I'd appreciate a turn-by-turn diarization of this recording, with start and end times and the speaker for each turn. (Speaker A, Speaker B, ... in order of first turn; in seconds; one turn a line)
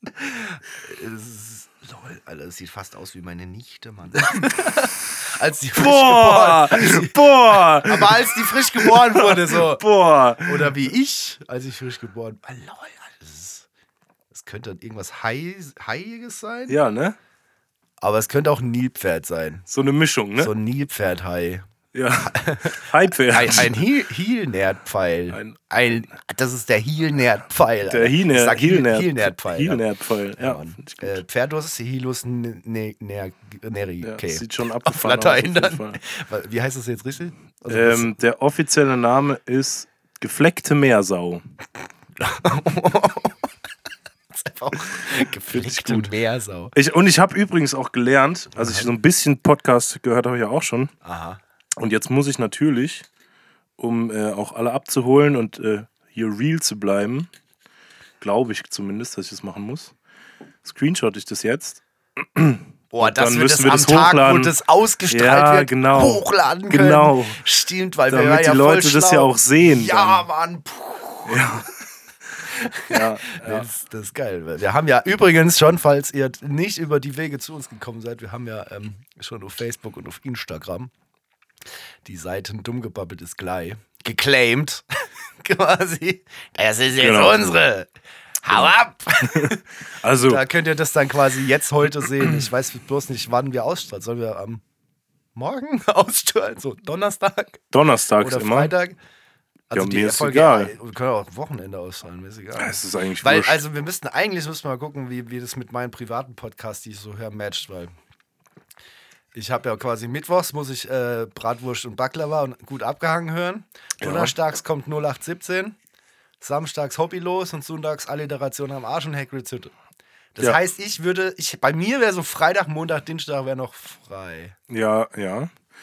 Speaker A: 0.1-9.8
Speaker B: 5.8-10.7
Speaker A: 10.4-13.7
Speaker A: 14.3-16.8
Speaker B: 16.7-17.1
Speaker A: 18.0-19.6
Speaker B: 19.7-20.5
Speaker A: 20.4-21.6
Speaker B: 21.9-23.8
Speaker A: 22.2-29.9
Speaker B: 27.8-31.2
Speaker A: 30.4-38.1
Speaker B: 34.0-36.0
Speaker B: 37.7-41.4
Speaker A: 42.2-43.4
Speaker A: 44.3-46.7
Speaker B: 45.5-46.1
Speaker B: 46.7-50.9
Speaker A: 48.6-48.9
Speaker A: 51.0-51.4
Speaker B: 51.8-53.0
Speaker B: 53.8-57.3
Speaker B: 58.2-59.9
Speaker B: 60.6-64.5
Speaker A: 62.9-71.6
Speaker B: 65.1-67.4
Speaker B: 68.1-70.2
Speaker B: 71.3-71.7
Speaker A: 72.4-80.9
Speaker B: 72.9-73.7
Speaker A: 82.0-84.8
Speaker A: 85.4-87.9
Speaker B: 87.0-87.5
Speaker A: 88.4-89.6
Speaker B: 89.3-90.4
Speaker A: 90.2-94.6
Speaker A: 95.3-97.6
Speaker B: 97.7-98.7
Speaker A: 98.2-99.0
Speaker A: 99.7-107.9
Speaker B: 99.7-100.7
Speaker B: 102.6-103.6
Speaker A: 109.3-115.8
Speaker B: 114.0-114.3
Speaker A: 116.4-119.7
Speaker A: 120.3-124.5
Speaker B: 124.7-125.5